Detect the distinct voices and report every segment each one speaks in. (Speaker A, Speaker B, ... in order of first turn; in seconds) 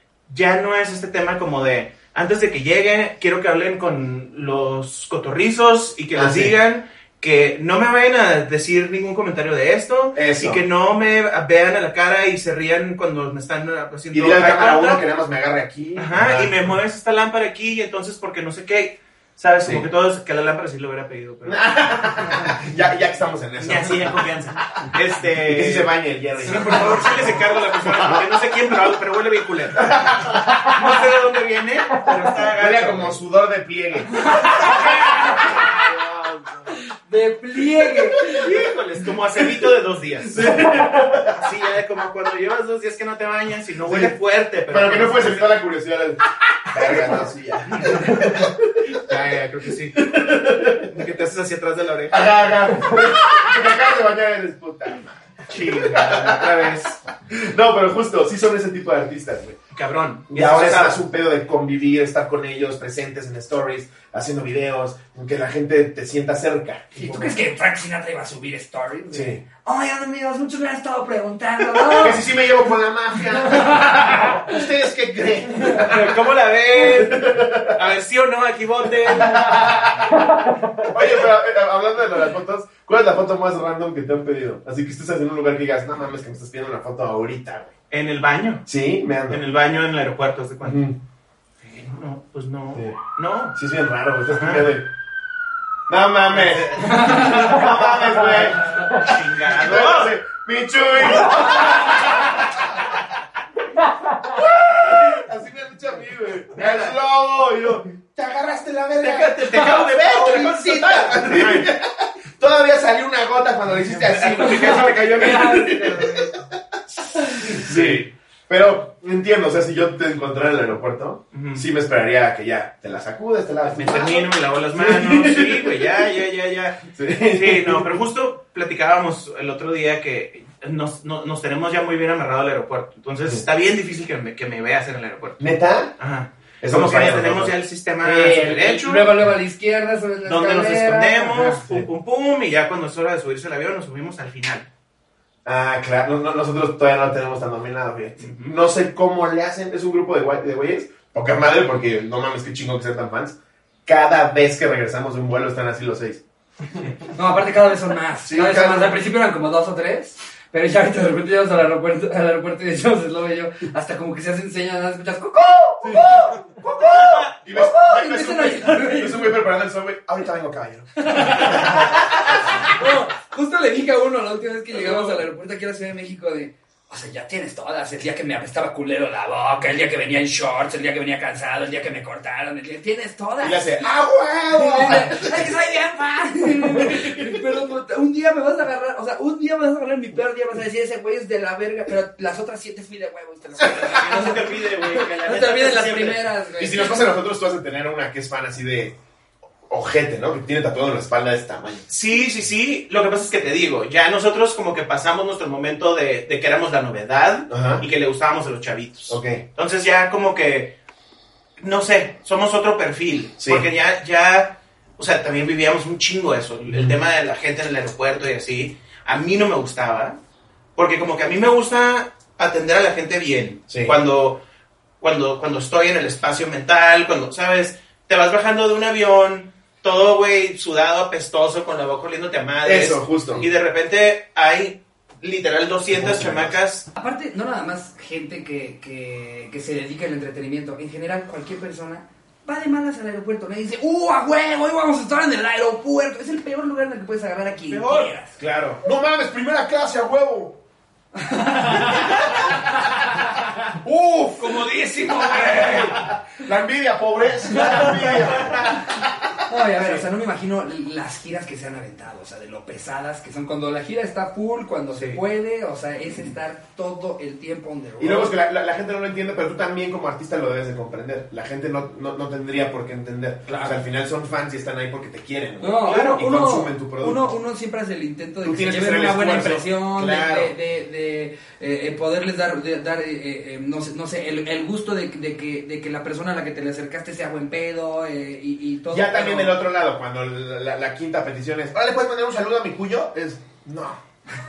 Speaker A: 0.3-15.0, 16.0-22.4, 23.6-33.2, 34.5-35.7, 38.3-45.6, 47.8-48.3, 48.9-50.2, 50.7-52.7, 55.5-57.0, 59.7-61.0, 75.6-80.1, 87.9-88.7, 89.3-90.8, 91.6-93.6, 94.3-94.7, 96.3-97.7, 98.2-100.2, 101.3-102.0, 109.0-111.7, 113.8-116.3, 117.5-118.1, 121.3-121.7, 123.7-139.1, 140.2-144.7, 148.2-148.6, 166.8-167.3, 174.8-175.2, 193.6-196.3, 201.9-210.8, 211.6-220.2, 220.8-224.4, 225.0-236.9, 247.7-248.1, 254.4-256.1, 257.5-258.8, 264.9-265.2, 275.9-276.1
Speaker B: 6.1-6.5, 10.1-10.6, 14.1-16.6, 21.4-24.3, 25.4-28.4, 29.8-30.6, 32.5-36.8, 40.2-41.5, 43.8-44.1, 44.7-49.1, 50.0-50.9, 52.1-59.6, 60.3-67.4, 69.1-69.4, 71.9-77.8, 79.1-80.1, 80.8-87.7, 88.7-89.4, 90.6-91.0, 93.5-94.9, 95.9-103.0, 104.2-116.8, 117.3-126.0, 126.9-128.0, 135.4-135.9, 136.6-137.6, 141.6-141.9, 145.4-156.9, 158.2-159.0, 165.8-166.4, 167.3-172.8, 183.4-185.5, 186.7-187.4, 196.6-199.0, 199.7-201.9, 207.5-207.8, 209.1-209.4, 213.4-213.7, 216.7-217.0, 223.7-224.0, 232.6-233.5, 235.9-236.6, 248.4-250.6, 251.6-252.8, 253.8-254.6, 255.2-259.5, 268.0-277.4, 278.4-280.5, 288.9-294.0
Speaker C: 34.2-35.6, 36.7-38.5, 67.0-72.2, 73.4-74.5, 97.0-97.4, 114.5-115.9, 138.0-141.6, 157.1-169.4, 171.0-183.9, 184.5-197.1, 237.0-248.4, 251.1-253.0, 255.4-255.7, 259.5-268.4, 275.6-289.6